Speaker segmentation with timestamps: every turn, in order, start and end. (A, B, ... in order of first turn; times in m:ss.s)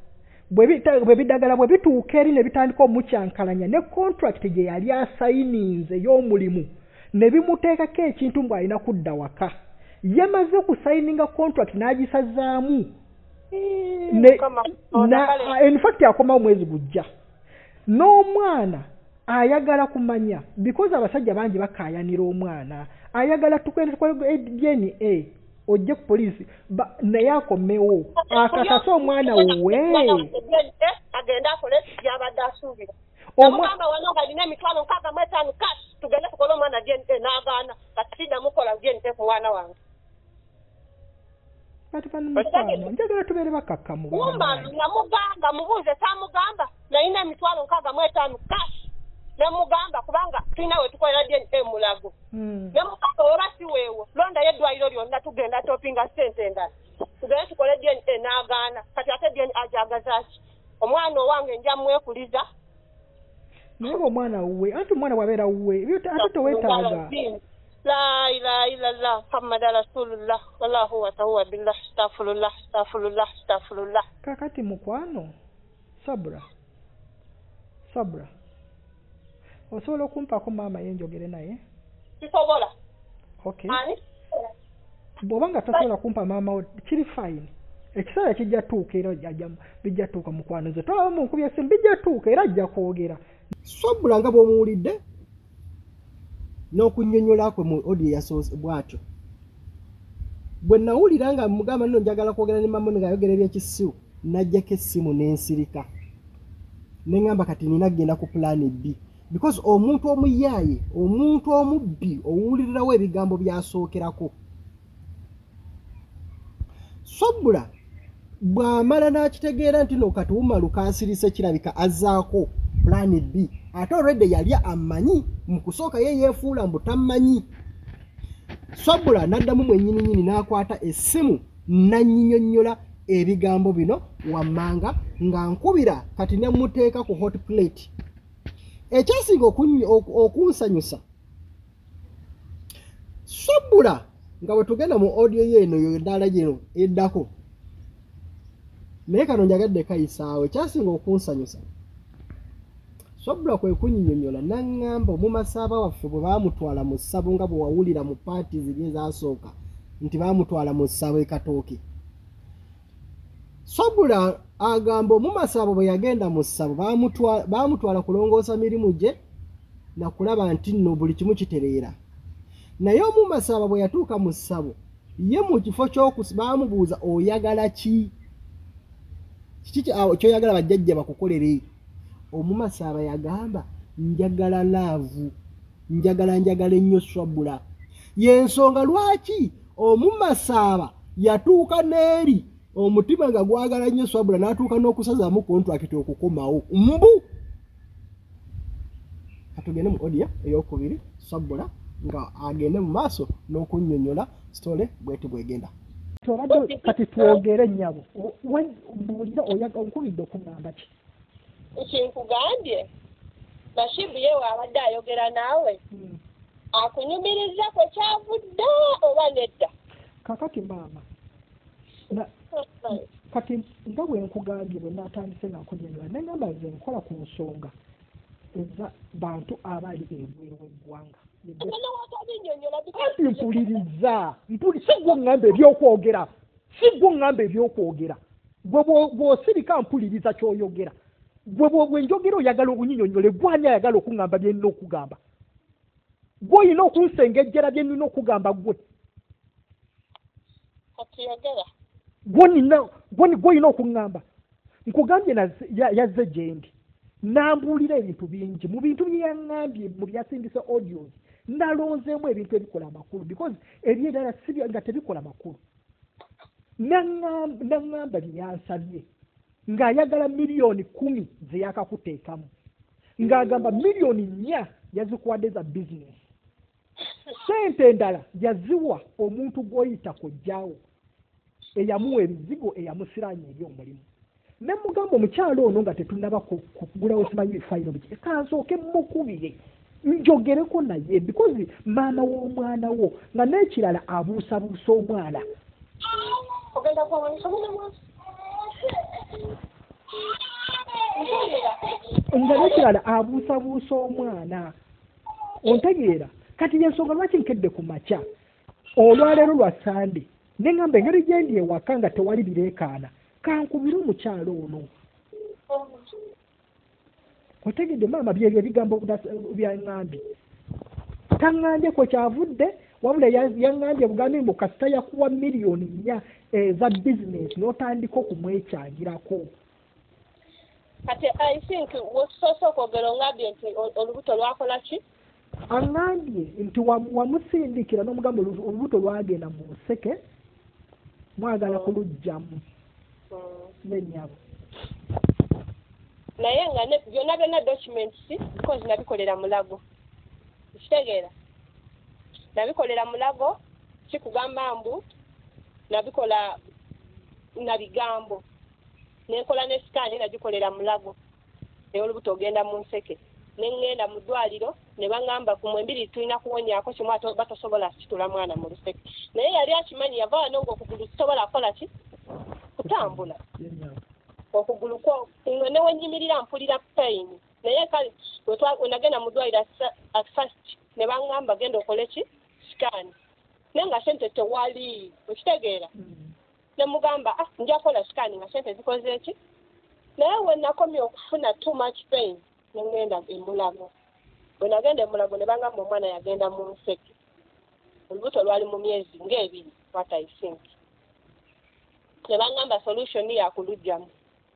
0:00.5-0:12.9 A
0:13.5-0:15.6 B
0:14.1-0:17.1 A
0:17.9-0:30.3 A
0:28.2-0:39.8 B
0:33.4-0:33.7 A
0:41.9-0:44.7 A
0:42.4-0:42.9 B
0:44.1-0:52.1 B
0:52.3-0:52.8 A
0:52.7-1:02.4 B
1:03.8-1:07.1 A
1:06.2-1:14.0 B
1:14.2-1:15.3 A
1:16.0-1:16.5 A
1:17.9-1:18.3 A
1:19.7-1:21.6 A
1:22.2-1:22.7 B
1:23.4-1:23.8 A
1:23.7-1:24.5 B
1:25.2-1:33.2 A
1:33.7-1:35.0 C
1:36.7-1:39.0 C
1:40.6-1:45.9 C
1:47.1-1:54.3 C
1:57.0-1:57.7 C
1:58.4-2:07.5 C
2:08.8-2:17.9 C
2:18.9-2:21.0 C
2:23.3-2:27.3 C
2:29.1-2:31.7 C
2:33.2-2:41.8 C
2:43.7-2:49.2 C
2:50.0-2:52.0 C
2:52.8-2:58.1 C
2:59.6-3:01.6 C
3:02.3-3:05.3 C
3:05.9-3:07.6 C
3:08.2-3:17.2 C
3:19.5-3:25.7 C
3:26.2-3:30.9 A
3:26.5-3:27.4 B
3:31.8-3:32.9 B
3:33.8-3:35.8 B
3:35.9-3:36.2 A
3:36.7-3:39.7 B
3:40.2-3:41.0 A
3:42.5-3:43.0 B
3:42.9-3:47.7 A
3:48.5-3:51.8 A
3:51.6-3:53.8 B
3:53.0-4:01.0 A
4:01.5-4:05.2 A
4:06.4-4:08.8 A
4:11.0-4:11.7 B
4:12.3-4:14.2 A
4:14.9-4:25.6 A
4:26.8-4:29.1 A
4:29.7-4:32.5 A
4:33.2-4:36.2 A
4:37.3-4:40.8 A
4:41.8-4:44.1 A
4:44.6-4:55.4 A
4:56.0-4:58.0 B
4:58.5-4:59.4 B
5:00.2-5:02.9 B
5:02.3-5:04.8 A
5:05.6-5:08.2 A
5:09.0-5:14.9 A
5:15.7-5:16.0 B
5:17.6-5:20.2 A
5:21.4-5:29.5 A
5:31.1-5:35.0 B
5:35.7-5:40.2 A
5:41.4-5:42.6 A
5:41.7-5:41.9 B
5:43.3-5:43.7 B
5:43.8-5:44.4 A
5:46.4-5:49.8 B
5:50.7-5:51.3 B
5:52.6-5:53.6 B
5:54.1-5:55.1 B
5:55.9-5:56.6 B
5:57.6-5:58.4 B
5:59.3-6:01.2 B
6:01.9-6:11.9 B
6:12.8-6:13.4 B
6:12.8-6:14.0 A
6:14.5-6:23.1 B
6:23.7-6:25.9 B
6:26.0-6:26.3 A
6:26.8-6:29.4 B
6:30.2-6:33.9 B
6:34.6-6:37.1 B
6:38.1-6:40.7 B
6:42.3-6:44.1 B